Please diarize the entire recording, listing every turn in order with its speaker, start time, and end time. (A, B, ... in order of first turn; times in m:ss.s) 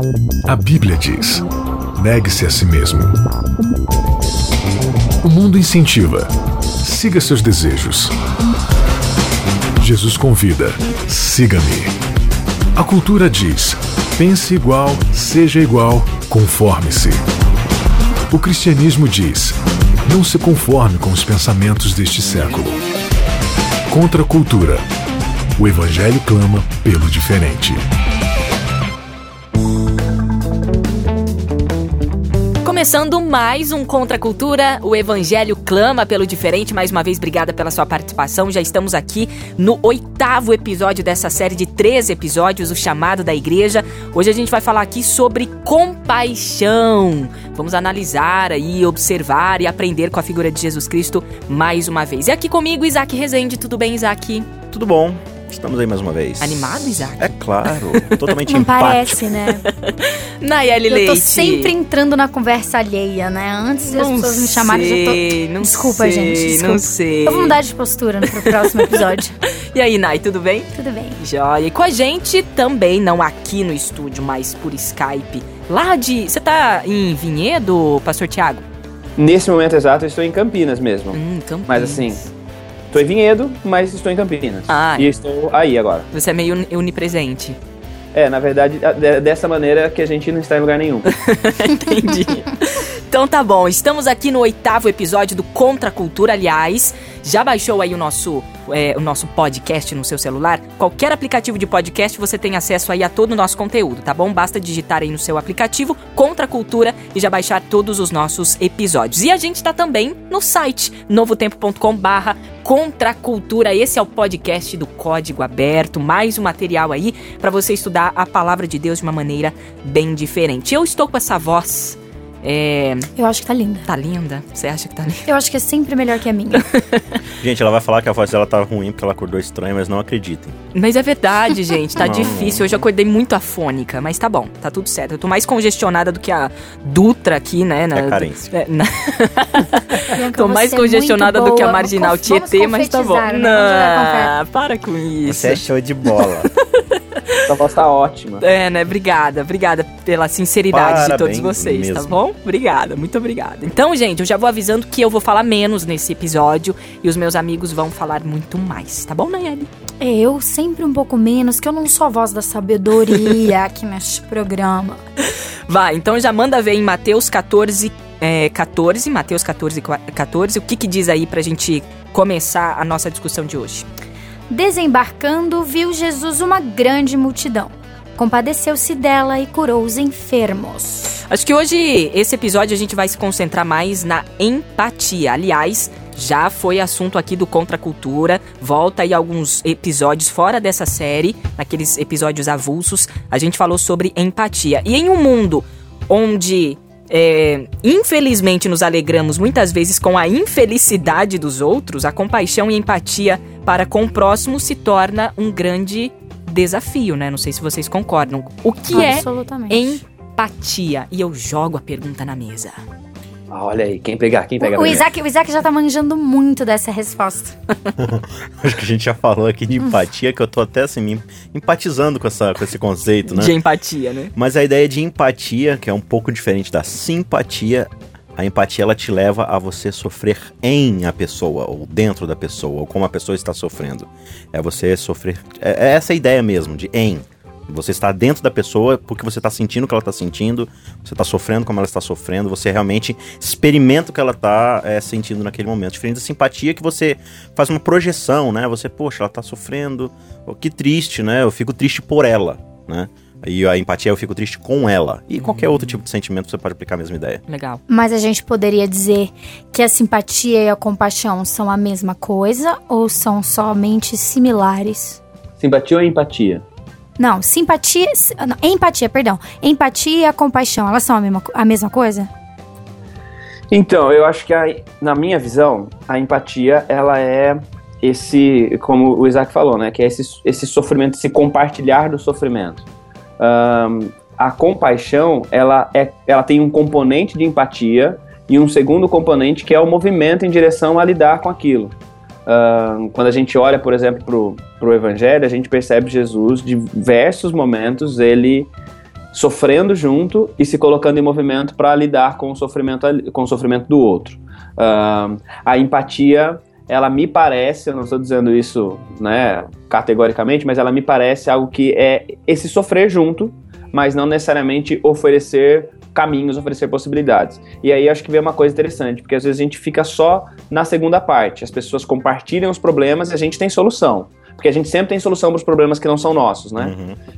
0:00.5-0:01.4 A
0:02.0-0:03.2 A
0:05.2-0:08.1 A
0:09.8-0:12.0 A
0:12.8-0:17.2 A
0:18.3-0:22.8 A
0:23.9-0:24.8 A
0:25.6-0:27.8 A
0:32.6-0:54.5 B
0:54.7-0:56.6 C
0:56.4-0:58.3 B
0:57.2-0:59.3 C
0:58.4-0:59.7 D
0:59.6-1:01.7 B
1:00.9-1:09.4 D
1:03.9-1:07.6 B
1:08.2-1:09.1 B
1:09.7-1:18.7 B
1:10.7-1:11.2 D
1:19.2-1:22.3 E
1:21.1-1:22.3 B
1:22.9-1:26.1 E
1:24.7-1:25.1 B
1:26.1-1:27.6 B
1:28.1-1:31.1 E
1:31.1-2:03.1 B
2:03.2-2:03.9 D
2:03.9-2:05.3 B
2:05.3-2:06.7 D
2:06.6-2:07.2 B
2:07.4-2:10.6 C
2:10.7-2:27.5 B
2:12.0-2:12.8 C
2:17.9-2:18.5 C
2:20.1-2:24.3 D
2:25.2-2:26.5 C
2:27.4-2:28.4 E
2:28.4-2:39.7 B
2:30.7-2:32.2 C
2:40.0-2:45.0 D
2:45.7-2:53.9 B
2:54.5-3:01.2 D
3:01.3-3:32.8 B
3:28.9-3:30.0 D
3:33.5-3:35.1 E
3:34.6-3:37.6 D
3:38.0-3:43.6 C
3:43.3-3:44.3 B
3:44.3-4:17.4 C
4:15.4-4:16.0 B
4:17.5-4:17.8 B
4:17.9-4:25.2 D
4:25.6-4:26.6 E
4:27.2-4:32.3 D
4:33.7-4:42.8 E
4:43.4-4:51.9 E
4:52.4-4:58.7 E
4:59.3-5:26.9 E
5:26.8-5:27.2 C